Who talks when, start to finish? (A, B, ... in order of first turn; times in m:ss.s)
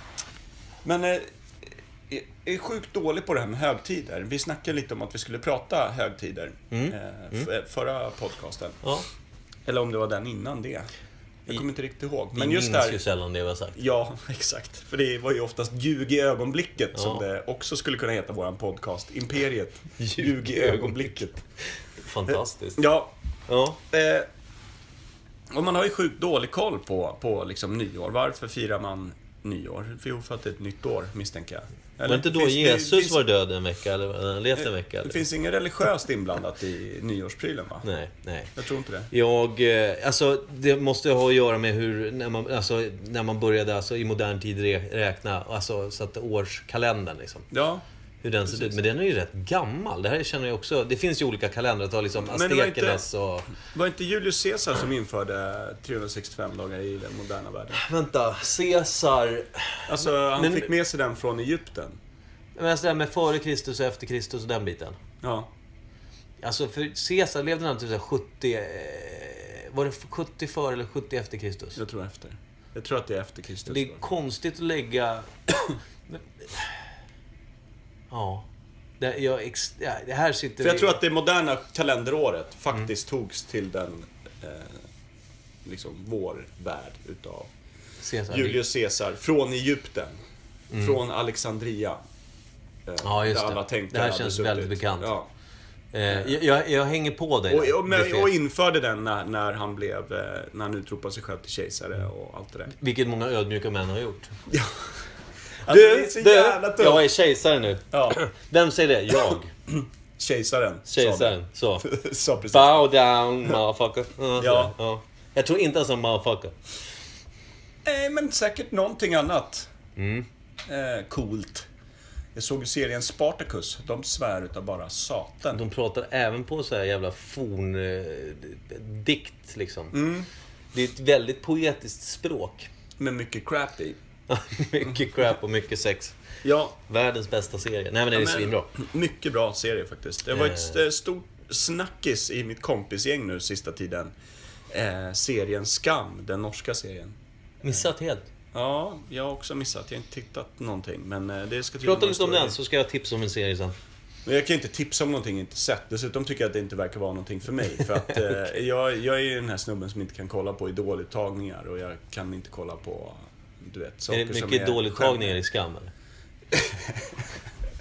0:00.8-0:01.3 A
0:02.1-0:08.8 A
0:06.7-0:07.5 B
0:09.7-0:10.9 A
0:11.5-0:13.0 A
0:12.4-0:13.8 B
0:13.8-0:21.4 A
0:17.0-0:17.2 B
0:20.0-0:21.2 B
0:22.0-0:22.8 B
0:22.8-0:23.1 A
0:23.5-0:23.8 B
0:23.9-0:24.3 A
0:25.5-0:33.2 A
0:32.0-0:35.2 B
0:34.6-0:37.8 A
0:37.8-0:38.5 B
0:38.6-0:39.1 A
0:39.1-0:47.5 B
0:47.5-0:47.8 A
0:48.2-0:53.5 B
0:48.5-0:48.8 A
0:52.2-0:53.0 A
0:53.6-0:57.8 A
0:57.7-1:00.7 B
0:59.9-1:02.0 A
1:02.6-1:05.0 B
1:05.2-1:05.5 A
1:06.4-1:11.8 B
1:11.8-1:14.0 A
1:13.7-1:15.3 B
1:16.1-1:16.7 B
1:18.1-1:18.5 B
1:19.0-1:21.0 B
1:20.6-1:24.8 A
1:25.6-1:27.5 A
1:28.0-1:28.6 B
1:28.3-1:30.2 A
1:30.7-1:31.0 B
1:30.8-1:32.0 A
1:32.9-1:35.3 A
1:33.0-1:35.1 B
1:35.9-1:38.3 B
1:36.1-1:36.4 A
1:37.5-1:42.7 A
1:42.8-1:44.3 B
1:44.5-1:44.9 A
1:45.7-1:47.1 A
1:45.7-1:49.5 B
1:47.9-1:48.2 A
1:49.7-1:52.9 A
1:50.9-1:51.9 B
1:52.5-1:56.6 B
1:54.4-1:54.7 A
1:57.8-1:59.7 A
2:00.0-2:00.3 B
2:00.7-2:01.7 A
2:02.4-2:05.6 A
2:05.5-2:10.0 B
2:09.9-2:10.3 A
2:10.7-2:12.7 B
2:13.0-2:14.0 A
2:14.3-2:16.2 B
2:16.4-2:16.8 A
2:16.9-2:18.7 B
2:18.1-2:24.1 A
2:20.3-2:20.8 B
2:24.7-2:27.2 A
2:27.6-2:28.3 B
2:28.5-2:32.6 A
2:31.8-2:33.8 B
2:34.3-2:45.4 A
2:44.1-2:45.9 B
2:46.5-2:47.2 A